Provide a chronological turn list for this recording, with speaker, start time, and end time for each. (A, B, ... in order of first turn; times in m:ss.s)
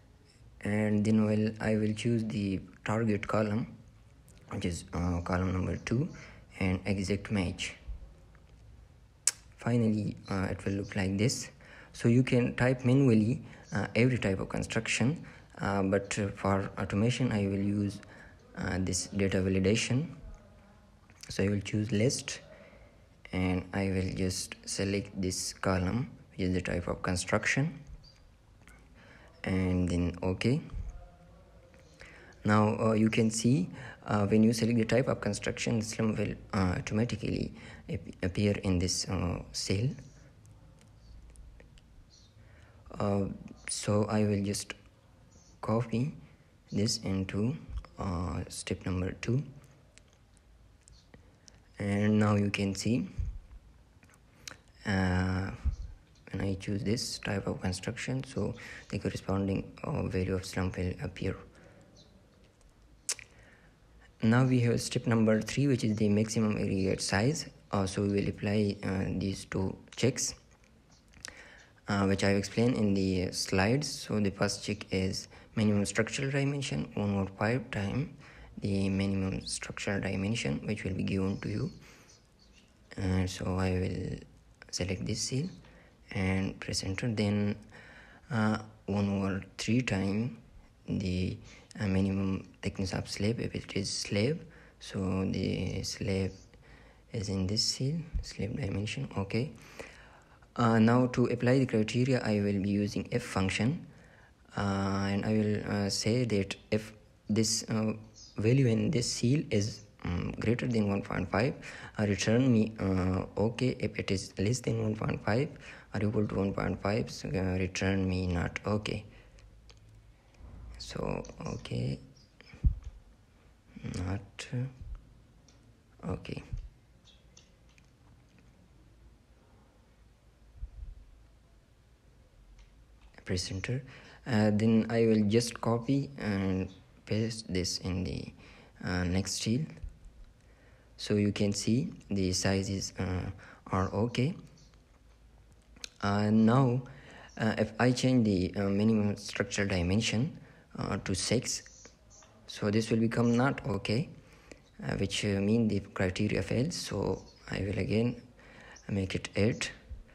0:00.6-0:03.7 A
0:04.5-0:07.8 A
0:09.6-0:18.0 A
0:18.5-0:20.2 A
0:21.3-0:22.4 A
0:23.3-0:27.8 A
0:29.4-0:30.6 A
0:32.4-0:40.0 A
0:42.9-0:44.7 A
0:45.6-0:46.2 A
0:46.7-0:49.4 A
0:51.8-0:53.1 A
0:54.8-0:55.7 A
0:56.3-1:01.4 A
1:04.2-1:10.4 A
1:11.9-1:21.7 A
1:22.9-1:25.5 A
1:26.1-1:27.6 A
1:28.3-1:36.4 A
1:37.1-1:39.5 A
1:40.5-1:43.9 A
1:44.5-1:59.1 A
2:00.8-2:02.0 A
2:03.8-2:04.7 A
2:06.0-2:06.4 A
2:13.2-2:19.7 A
2:21.0-2:24.3 A
2:26.0-2:31.7 A
2:32.5-2:34.1 A
2:34.8-2:38.2 A
2:38.9-2:39.7 A